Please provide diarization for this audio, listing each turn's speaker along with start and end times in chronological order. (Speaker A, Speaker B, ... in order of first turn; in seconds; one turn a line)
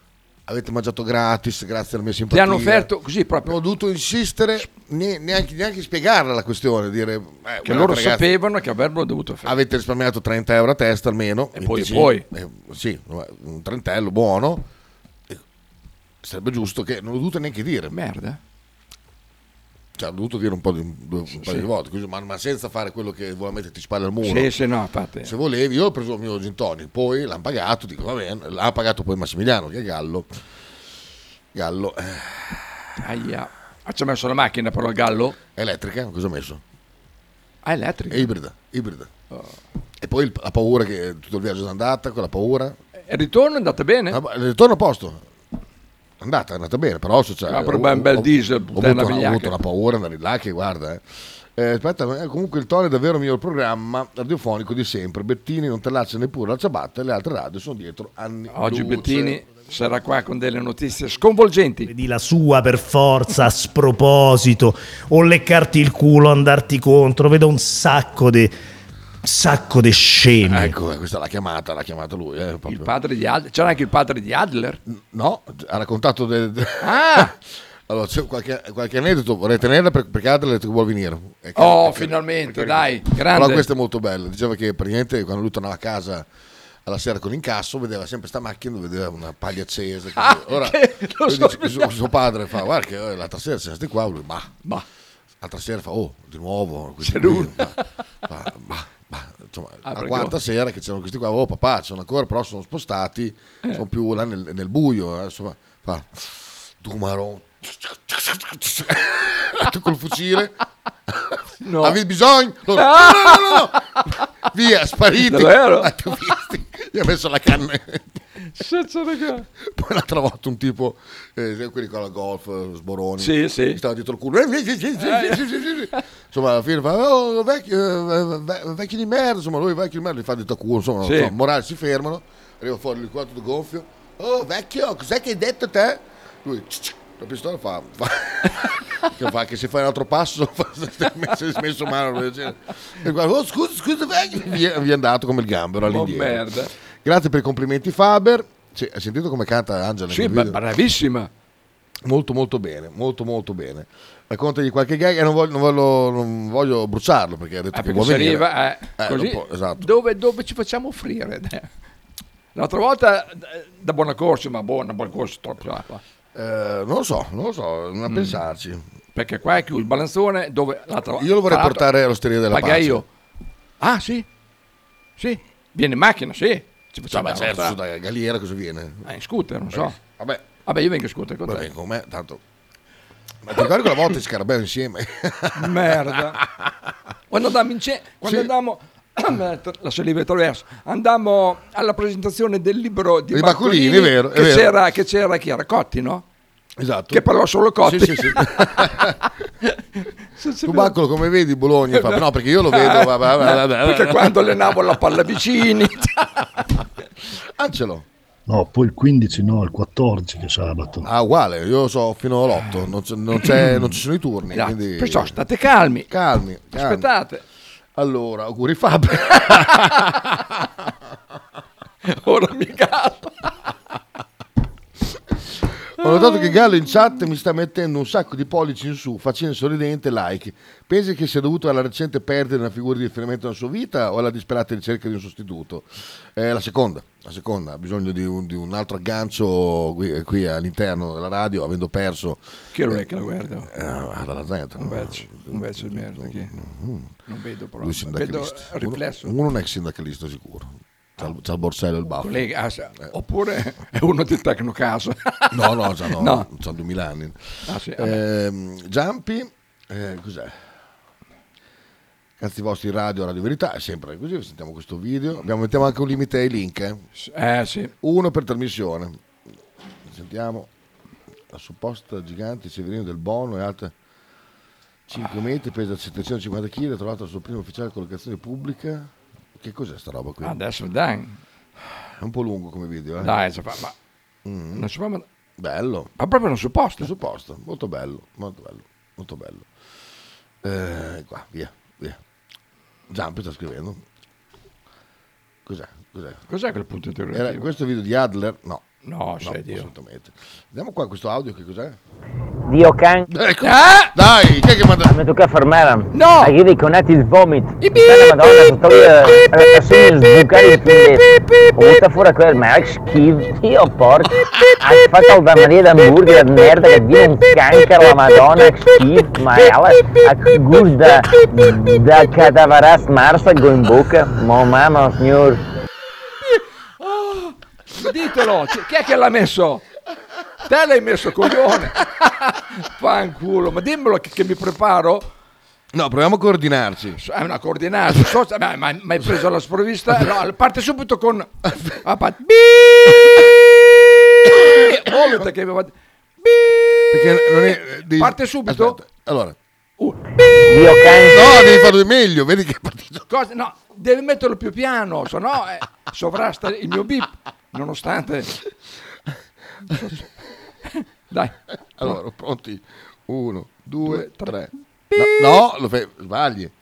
Speaker A: 0.5-2.9
Speaker B: 2.3-3.6
Speaker A: 3.4-8.3
Speaker B: 7.6-9.5
Speaker A: 9.4-14.7
Speaker B: 11.6-12.2
Speaker A: 16.2-17.9
Speaker B: 17.9-18.4
Speaker A: 20.0-24.5
Speaker B: 21.3-21.7
Speaker B: 24.2-25.3
Speaker A: 25.2-30.3
Speaker A: 31.5-32.6
Speaker B: 33.0-35.4
Speaker A: 35.6-36.6
Speaker B: 37.6-38.3
Speaker A: 38.1-39.1
Speaker A: 40.0-42.8
Speaker B: 43.1-44.2
Speaker A: 44.1-45.2
Speaker A: 46.2-51.0
Speaker B: 47.5-49.5
Speaker A: 51.6-59.4
Speaker B: 58.5-61.9
Speaker C: 61.9-68.5
Speaker C: 69.2-70.7
Speaker A: 70.5-72.9
Speaker B: 72.7-74.8
Speaker A: 74.9-77.3
Speaker B: 76.8-77.3
Speaker A: 77.9-86.3
Speaker B: 81.6-83.7
Speaker A: 86.9-94.5
Speaker B: 90.2-91.9
Speaker A: 95.4-110.5
Speaker B: 97.0-97.7
Speaker B: 99.9-100.3
Speaker A: 111.2-113.8
Speaker B: 111.6-112.0
Speaker B: 112.7-113.9
Speaker A: 114.5-118.2
Speaker B: 115.2-115.9
Speaker B: 118.5-119.5
Speaker A: 119.6-146.4
Speaker B: 123.2-123.8
Speaker B: 125.0-125.4
Speaker B: 131.0-131.3
Speaker B: 145.8-146.7
Speaker A: 147.0-150.6
Speaker B: 150.1-151.3
Speaker A: 152.1-158.5
Speaker B: 157.7-161.7
Speaker A: 159.0-159.9
Speaker B: 162.6-166.0
Speaker A: 166.3-168.8
Speaker B: 168.1-168.4
Speaker B: 169.1-171.8
Speaker A: 171.2-173.0
Speaker B: 172.5-173.1
Speaker B: 173.8-174.3
Speaker B: 175.2-177.8
Speaker A: 177.1-179.1
Speaker B: 179.1-180.0
Speaker A: 179.7-180.4
Speaker B: 180.7-181.7
Speaker A: 181.4-182.4
Speaker A: 183.4-186.4
Speaker B: 185.6-186.4
Speaker B: 187.3-196.2
Speaker A: 188.2-188.5
Speaker A: 193.3-194.7
Speaker A: 196.8-197.2
Speaker B: 197.1-198.8
Speaker A: 197.8-199.2
Speaker B: 200.4-200.9
Speaker A: 200.6-204.3
Speaker B: 201.9-206.5
Speaker A: 207.6-208.1
Speaker D: 208.5-211.1
Speaker A: 211.0-215.3
Speaker B: 213.4-213.9
Speaker B: 214.5-216.1
Speaker A: 216.1-217.1
Speaker B: 216.7-217.4
Speaker A: 218.0-220.3
Speaker B: 222.1-223.5
Speaker A: 226.0-243.0
Speaker B: 226.1-226.4
Speaker B: 242.7-243.7
Speaker A: 243.7-247.1
Speaker B: 244.8-246.5
Speaker B: 247.3-249.3
Speaker A: 247.8-252.4
Speaker B: 252.2-256.4
Speaker A: 255.5-260.6
Speaker B: 257.7-258.2
Speaker A: 262.4-267.0
Speaker B: 267.1-267.9
Speaker A: 268.0-269.2
Speaker A: 270.1-270.7
Speaker A: 271.5-273.9
Speaker A: 275.1-280.6
Speaker B: 280.4-281.4
Speaker A: 282.2-283.3
Speaker B: 283.2-283.9
Speaker A: 284.4-284.9
Speaker B: 284.8-285.2
Speaker A: 285.6-286.1
Speaker B: 286.2-287.1
Speaker A: 287.0-289.7
Speaker A: 290.6-292.2
Speaker A: 293.1-294.0
Speaker A: 295.6-296.4
Speaker B: 296.5-297.6
Speaker A: 297.3-298.8
Speaker B: 299.1-299.9
Speaker A: 299.4-302.0
Speaker E: 302.7-303.3
Speaker A: 303.3-305.1
Speaker B: 303.6-304.1
Speaker E: 305.1-325.6
Speaker B: 306.1-306.6
Speaker B: 307.8-308.3
Speaker B: 327.0-329.8
Speaker B: 330.7-335.3
Speaker A: 335.9-337.2
Speaker B: 337.2-341.5
Speaker B: 342.0-343.5
Speaker B: 344.5-345.9
Speaker B: 346.4-346.8
Speaker A: 347.1-349.6
Speaker B: 348.1-349.0
Speaker E: 350.7-351.4
Speaker A: 351.2-353.3
Speaker B: 353.3-358.5
Speaker B: 359.9-360.3
Speaker B: 360.9-362.2
Speaker A: 362.0-366.7
Speaker B: 364.0-364.5